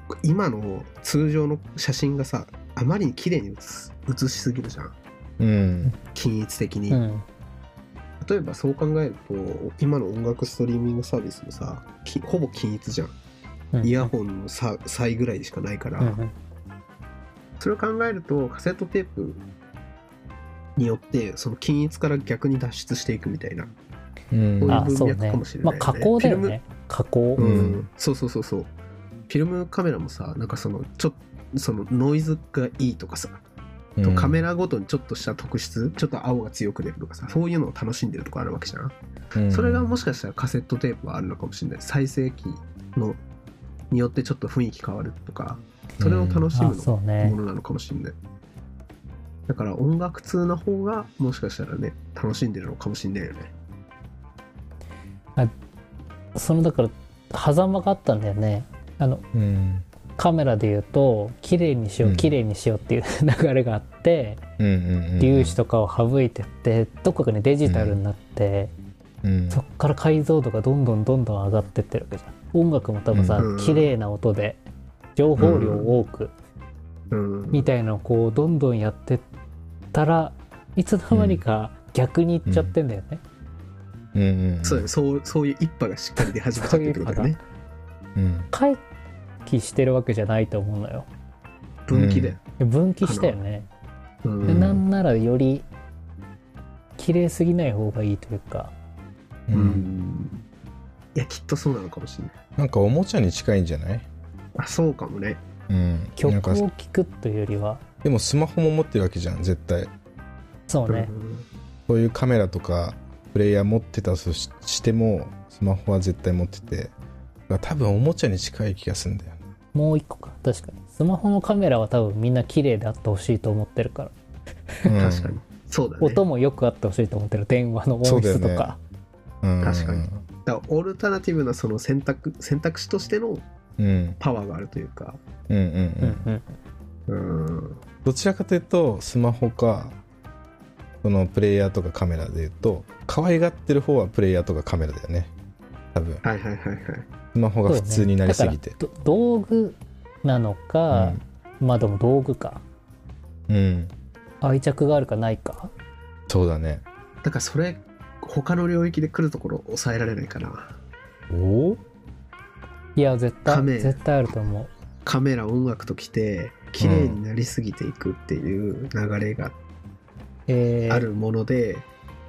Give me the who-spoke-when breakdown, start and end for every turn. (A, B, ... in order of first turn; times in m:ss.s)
0:00.2-0:04.9 A
0:05.4-0:05.9 B
0:06.1-0:07.0 A
0:06.9-0:07.2 C
0:08.2-0:13.1 A
0:13.7-0:14.1 C
0:13.8-0:16.2 A
0:16.0-0:16.3 C
0:17.6-0:19.4 A
0:20.8-0:23.7 A
0:24.3-0:24.8 B
0:24.6-0:26.6 A
0:24.7-0:27.4 C
0:27.4-0:28.7 A
0:27.4-0:27.8 B
0:29.3-0:33.4 A
0:34.0-0:34.4 B
0:34.0-0:38.9 A
0:39.3-0:39.9 B
0:39.5-0:43.2 A
0:43.9-0:48.1 A
0:46.0-0:46.4 B
0:46.5-0:47.4 C
0:49.5-0:53.5 A
0:56.3-0:59.2 C
0:59.3-0:59.8 B
1:00.2-1:04.4 C
1:02.0-1:02.3 B
1:04.6-1:05.6 B
1:05.2-1:08.7 C
1:07.6-1:08.0 B
1:09.2-1:09.6 B
1:09.5-1:14.6 C
1:13.1-1:13.4 B
1:13.4-1:13.9 A
1:15.2-1:16.3 C
1:15.4-1:15.9 A
1:17.1-1:17.7 A
1:17.5-1:19.2 C
1:19.9-1:23.2 C
1:21.1-1:21.4 B
1:22.4-1:22.7 B
1:24.1-1:24.9 B
1:24.6-1:27.4 A
1:26.2-1:27.4 C
1:28.2-1:28.5 B
1:28.5-1:28.8 C
1:29.4-1:31.1 C
1:31.9-1:32.4 A
1:31.9-1:32.4 B
1:32.6-1:33.7 C
1:33.0-1:33.4 A
1:34.2-1:34.8 A
1:34.4-1:35.6 C
1:34.5-1:34.8 B
1:37.0-1:38.7 C
1:39.5-1:39.8 B
1:39.5-1:40.4 A
1:41.1-1:42.3 A
1:42.6-1:44.1 B
1:44.6-1:45.4 A
1:45.7-1:46.6 B
1:46.2-1:47.8 C
1:48.0-1:49.9 B
1:50.7-1:51.1 C
1:50.9-1:51.4 A
1:51.9-1:56.9 B
1:57.5-1:59.4 B
1:59.7-2:04.1 C
2:04.8-2:05.3 B
2:04.9-2:06.2 A
2:06.0-2:08.8 C
2:08.0-2:08.7 B
2:09.4-2:10.2 B
2:09.6-2:13.4 A
2:13.8-2:14.2 B
2:14.2-2:15.2 A
2:15.5-2:16.2 B
2:16.0-2:16.6 C
2:17.1-2:17.8 A
2:18.0-2:20.0 B
2:21.0-2:25.3 B
2:25.9-2:26.2 B
2:26.2-2:27.0 A
2:27.3-2:28.8 B
2:27.7-2:32.6 C
2:30.9-2:31.2 B
2:33.5-2:33.9 B
2:34.4-2:35.7 C
2:36.3-2:36.8 B
2:37.2-2:40.7 A
2:41.3-2:41.8 B
2:43.0-2:44.7 C
2:43.4-2:44.0 A
2:45.0-2:49.6 A
2:46.8-2:47.2 B
2:50.5-2:51.1 C
2:50.9-2:51.8 A